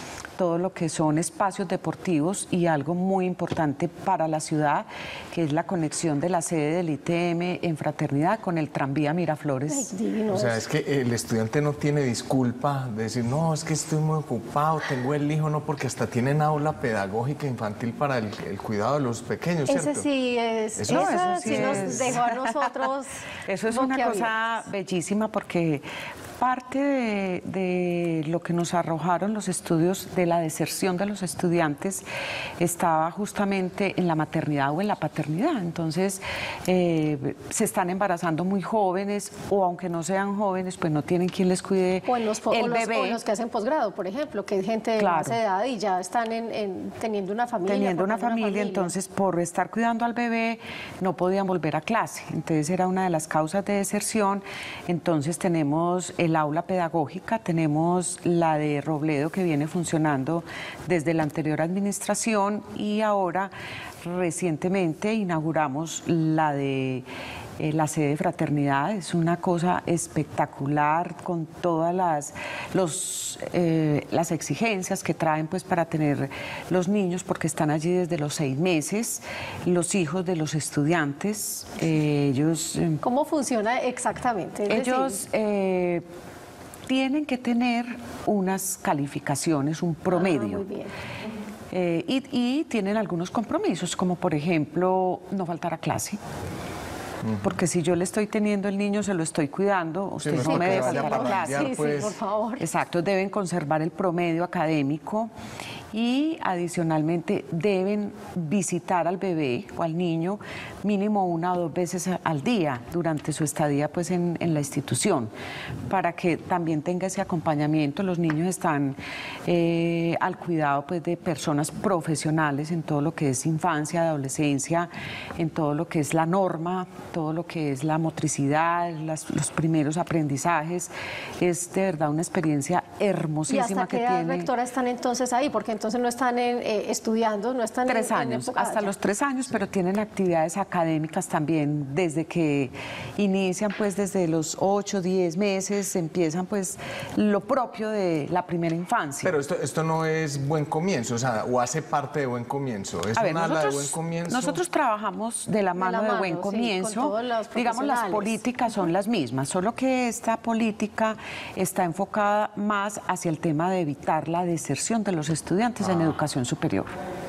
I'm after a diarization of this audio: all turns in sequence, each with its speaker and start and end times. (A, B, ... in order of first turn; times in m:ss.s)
0:00.4-0:09.9 A
0:09.7-0:10.6 B
0:10.3-0:20.0 C
0:19.7-0:24.3 B
0:20.8-0:22.2 C
0:20.9-0:22.7 A
0:23.4-0:25.8 A
0:26.4-0:32.0 A
0:32.6-0:43.2 A
0:42.1-0:48.9 B
0:45.0-0:45.4 A
0:47.7-1:03.5 A
1:04.0-1:07.0 A
1:07.6-1:23.0 A
1:23.0-1:25.2 B
1:24.7-1:26.0 A
1:26.9-1:30.6 A
1:30.1-1:30.9 B
1:31.7-1:36.2 A
1:37.4-1:41.8 A
1:40.2-1:42.2 C
1:40.4-1:42.6 B
1:42.6-1:45.3 A
1:45.9-1:55.3 A
1:55.9-2:14.5 A
2:13.5-2:18.9 B
2:17.8-2:29.3 A
2:29.2-2:34.6 C
2:33.2-2:46.9 A
2:35.8-2:38.4 B
2:45.8-2:46.2 C